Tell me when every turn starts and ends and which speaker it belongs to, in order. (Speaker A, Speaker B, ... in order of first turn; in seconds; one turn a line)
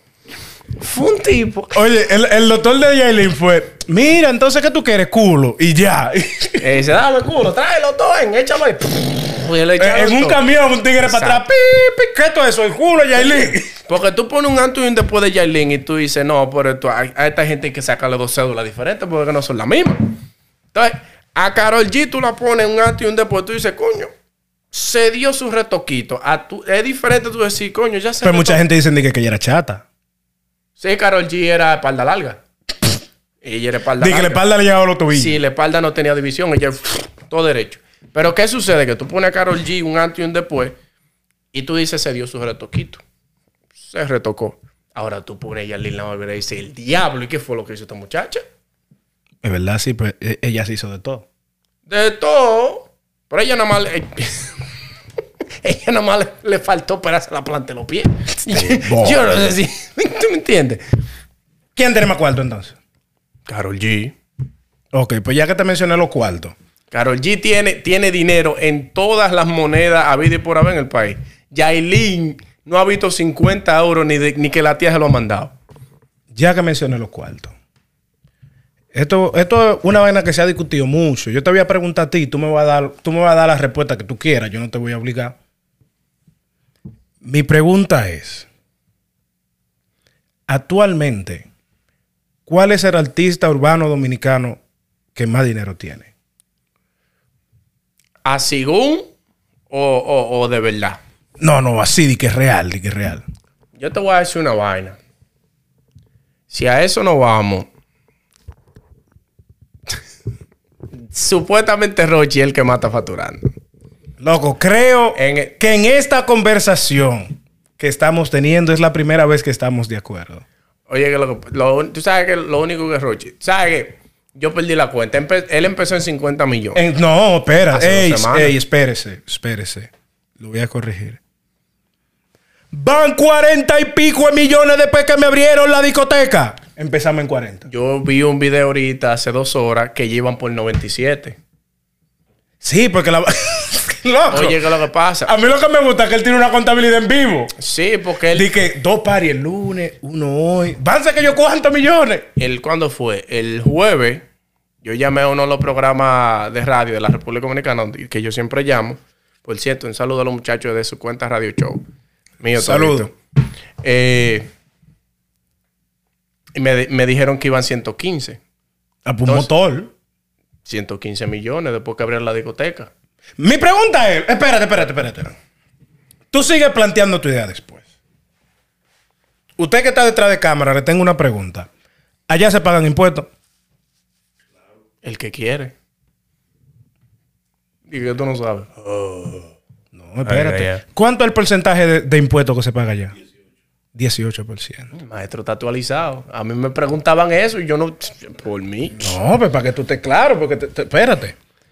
Speaker A: 0.8-1.8
Speaker B: 1.7-6.6
Speaker A: 6.6-10.4
Speaker B: 9.8-13.8
Speaker A: 11.0-11.4
Speaker A: 13.9-20.2
Speaker A: 20.7-24.1
Speaker A: 24.7-28.6
Speaker B: 28.2-29.8
Speaker A: 30.8-32.4
Speaker A: 33.4-34.4
Speaker B: 34.0-35.4
Speaker A: 35.1-40.8
Speaker A: 41.5-43.0
Speaker A: 43.8-48.4
Speaker B: 49.4-51.3
Speaker A: 51.9-54.6
Speaker A: 55.6-60.8
Speaker B: 58.5-59.4
Speaker B: 61.8-62.8
Speaker A: 63.5-64.2
Speaker B: 64.9-66.5
Speaker A: 66.9-75.5
Speaker B: 76.3-77.5
Speaker B: 78.9-85.4
Speaker B: 87.2-88.5
Speaker B: 90.5-91.5
Speaker B: 92.5-94.6
Speaker B: 95.2-96.1
Speaker A: 98.2-99.1
Speaker A: 99.7-101.0
Speaker B: 101.4-103.2
Speaker A: 103.8-105.0
Speaker A: 106.5-107.7
Speaker A: 111.0-113.5
Speaker B: 114.2-120.4
Speaker A: 115.2-115.5
Speaker A: 120.9-126.8
Speaker B: 126.8-131.2
Speaker A: 127.7-128.6
Speaker B: 132.7-137.7
Speaker A: 137.7-141.4
Speaker B: 142.6-144.7
Speaker A: 144.3-145.3
Speaker B: 145.3-147.5
Speaker A: 147.6-148.5
Speaker B: 148.3-152.3
Speaker A: 152.4-154.2
Speaker A: 154.8-161.8
Speaker A: 162.4-163.2
Speaker B: 162.6-163.1
Speaker A: 163.8-164.5
Speaker A: 166.6-168.4
Speaker B: 169.1-169.9
Speaker A: 170.7-172.9
Speaker B: 173.4-175.3
Speaker B: 176.3-177.9
Speaker B: 179.6-181.7
Speaker B: 182.3-183.3
Speaker A: 185.0-185.7
Speaker A: 187.9-189.5
Speaker B: 189.9-193.1
Speaker A: 190.2-190.8
Speaker B: 193.9-194.9
Speaker A: 194.9-199.2
Speaker B: 199.0-201.3